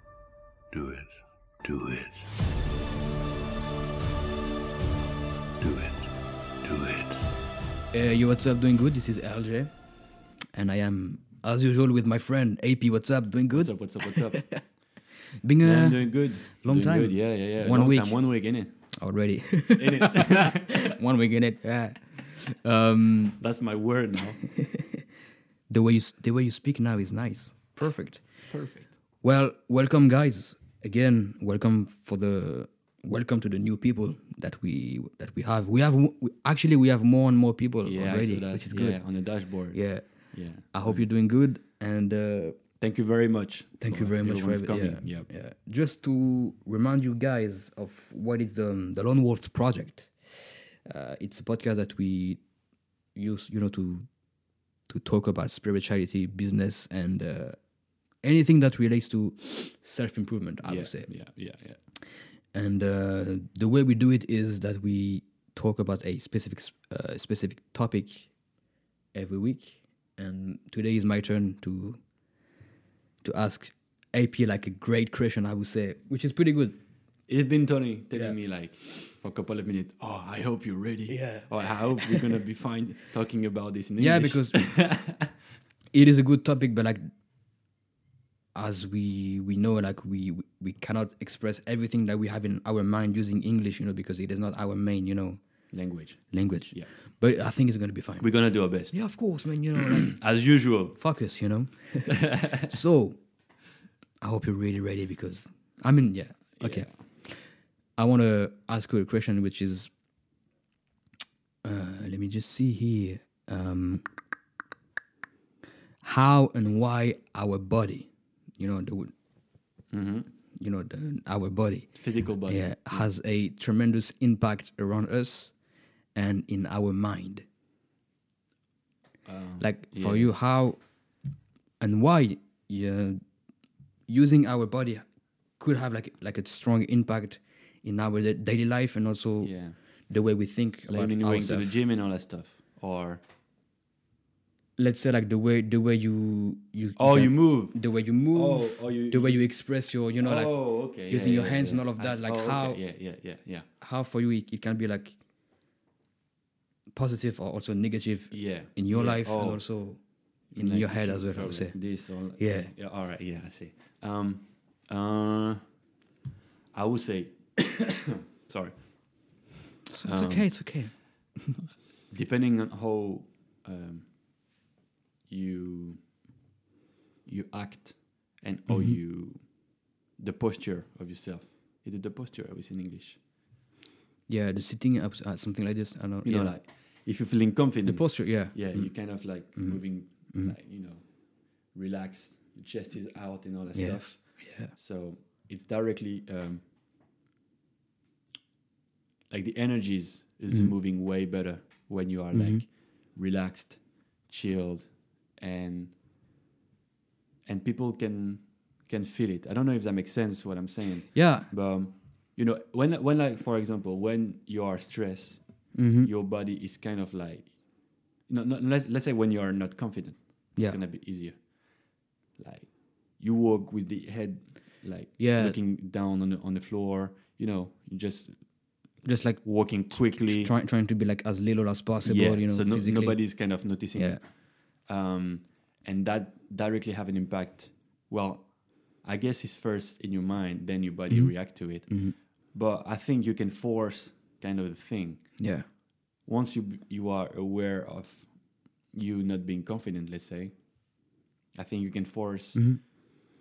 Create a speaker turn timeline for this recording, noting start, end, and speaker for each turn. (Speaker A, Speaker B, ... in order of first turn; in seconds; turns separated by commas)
Speaker A: 0.7-1.1, Speaker A: 1.6-2.1, Speaker A: 5.6-6.1, Speaker A: 6.6-7.2, Speaker B: 7.9-9.7, Speaker B: 10.5-14.6, Speaker C: 13.5-14.6, Speaker B: 15.4-18.3, Speaker C: 15.6-18.8, Speaker B: 18.9-23.4, Speaker C: 19.8-21.0, Speaker C: 23.4-24.4, Speaker B: 24.6-25.0, Speaker B: 25.7-28.2, Speaker C: 28.5-28.9, Speaker B: 29.2-42.6, Speaker C: 37.8-41.1, Speaker C: 42.8-45.3, Speaker B: 43.8-52.4, Speaker B: 53.1-54.1, Speaker B: 54.9-57.6, Speaker B: 58.2-61.1, Speaker C: 60.6-61.8, Speaker B: 62.5-68.3, Speaker B: 69.1-72.0, Speaker B: 73.2-76.8, Speaker C: 77.3-85.3, Speaker B: 81.1-82.4, Speaker B: 84.0-84.7, Speaker B: 85.9-87.0, Speaker B: 88.5-95.4, Speaker C: 95.7-96.9, Speaker B: 96.3-103.2, Speaker C: 98.2-99.2, Speaker C: 99.8-101.0, Speaker C: 102.1-102.5, Speaker B: 104.2-109.9, Speaker C: 106.6-106.9, Speaker B: 111.6-114.1, Speaker B: 116.0-119.1, Speaker C: 119.9-120.3, Speaker B: 120.6-125.5, Speaker C: 122.0-123.1, Speaker B: 126.1-127.5, Speaker C: 129.2-130.4, Speaker B: 129.6-130.8, Speaker B: 131.8-133.2, Speaker B: 134.1-135.1, Speaker B: 135.6-141.7, Speaker C: 139.4-139.8, Speaker C: 140.9-143.2, Speaker B: 144.8-152.8, Speaker C: 147.0-149.5, Speaker C: 150.2-153.7, Speaker B: 153.8-155.2, Speaker B: 156.9-161.8, Speaker C: 158.3-159.7, Speaker C: 160.5-165.7, Speaker B: 162.4-162.7, Speaker C: 166.7-168.8, Speaker B: 169.9-171.7, Speaker C: 170.1-170.7, Speaker C: 172.1-174.1, Speaker C: 175.3-176.0, Speaker C: 177.3-183.2, Speaker B: 178.7-179.0, Speaker B: 184.3-186.6, Speaker C: 186.2-196.6, Speaker B: 187.8-190.6, Speaker B: 193.8-194.7, Speaker C: 199.3-205.9, Speaker B: 202.3-202.7, Speaker C: 207.5-228.6, Speaker B: 211.1-211.5, Speaker B: 215.7-216.1, Speaker B: 220.6-220.8, Speaker B: 225.2-225.6, Speaker B: 229.0-234.2, Speaker C: 229.4-230.5, Speaker C: 232.0-245.5, Speaker B: 241.1-242.2, Speaker B: 245.4-245.7, Speaker C: 246.2-252.9, Speaker B: 252.6-252.8